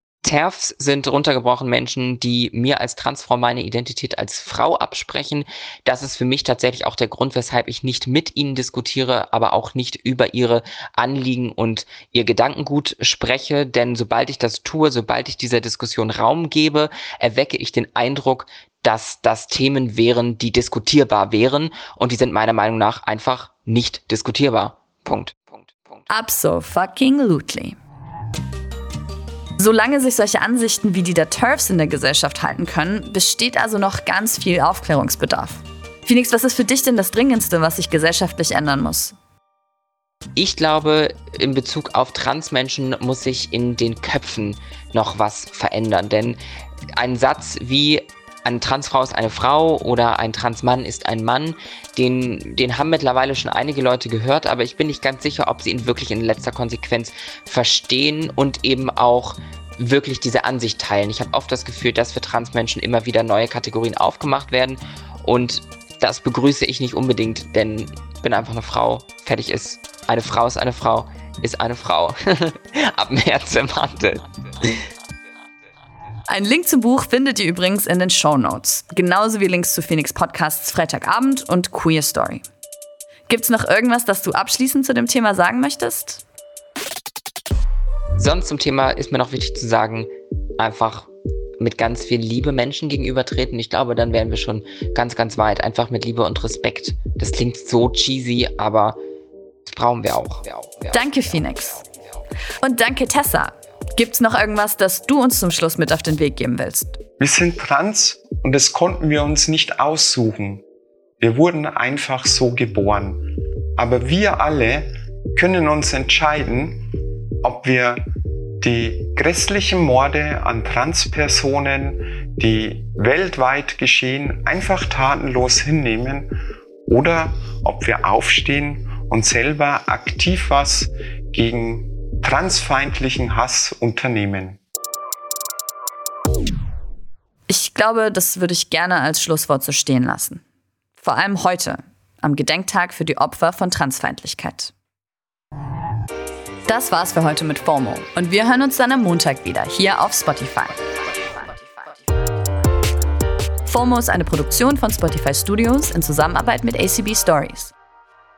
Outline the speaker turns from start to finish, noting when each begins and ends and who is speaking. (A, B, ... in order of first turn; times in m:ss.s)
0:00.2-0:26.0 A
0:26.1-0:27.8 B
0:29.6-0:39.2 B
0:40.4-0:46.4 A
0:47.0-1:14.7 A
1:16.3-1:22.4 B
1:23.3-1:26.2 B
1:28.2-1:39.0 A
1:39.7-1:41.4 A
1:40.9-1:41.8 B
1:42.6-1:47.0 B
1:47.2-1:50.6 C
1:51.2-1:56.9 C
1:57.4-1:58.0 C
1:58.6-2:06.3 C
2:06.9-2:14.6 C
2:17.5-2:20.4 B
2:21.0-2:24.7 B
2:26.7-2:30.8 B
2:33.6-2:37.7 B